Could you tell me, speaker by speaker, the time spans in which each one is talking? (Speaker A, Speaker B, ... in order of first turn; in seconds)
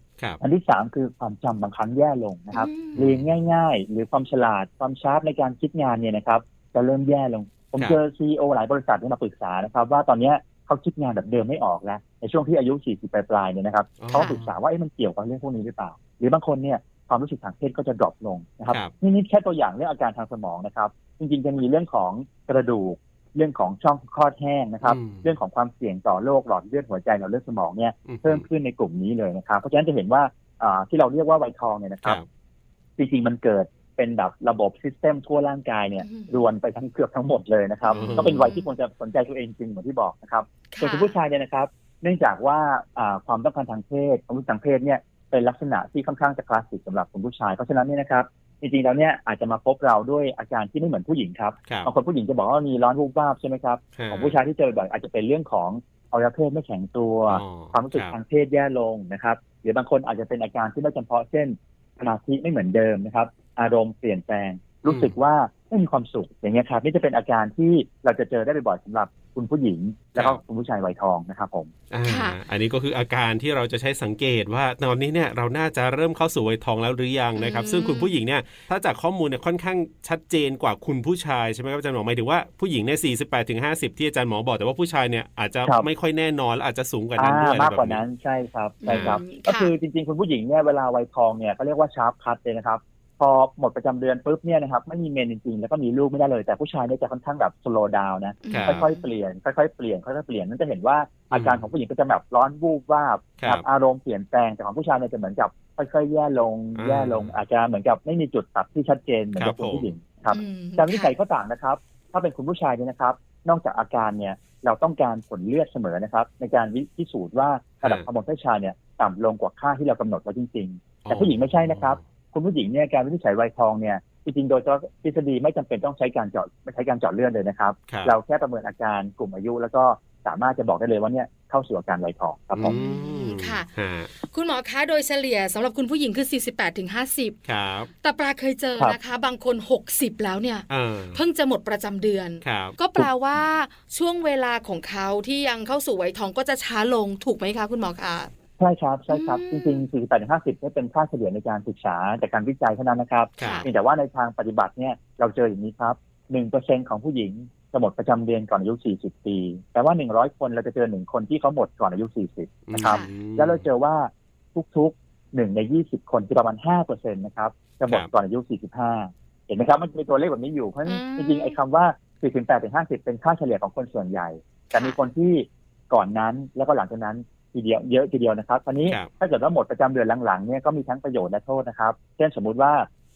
Speaker A: 0.4-32.2, 33.0-71.7, 87.2-132.8, 148.6-182.9
Speaker B: 2.5-3.0, 14.1-14.4, 36.0-36.4, 37.8-38.7, 40.7-41.2, 72.0-72.4, 77.3-78.1, 88.8-89.7, 98.4-99.1, 110.3-111.1, 132.6-133.7, 134.2-137.3, 138.0-148.3, 149.1-149.8, 153.4-153.7, 162.8-163.1, 170.8-171.6, 174.7-175.0
Speaker C: 2.9-3.2, 14.0-14.5, 24.8-25.3, 28.1-28.4, 37.9-38.4, 53.9-54.4, 57.3-58.1, 64.8-65.1, 71.9-88.0, 88.9-89.2, 98.5-98.8, 101.3-101.6, 103.4-103.6, 106.8-107.3, 109.3-109.9, 121.0-122.0, 127.9-128.1, 132.6-134.1, 137.4-137.9, 140.7-141.2, 142.4-142.8, 153.4-153.7, 162.7-163.6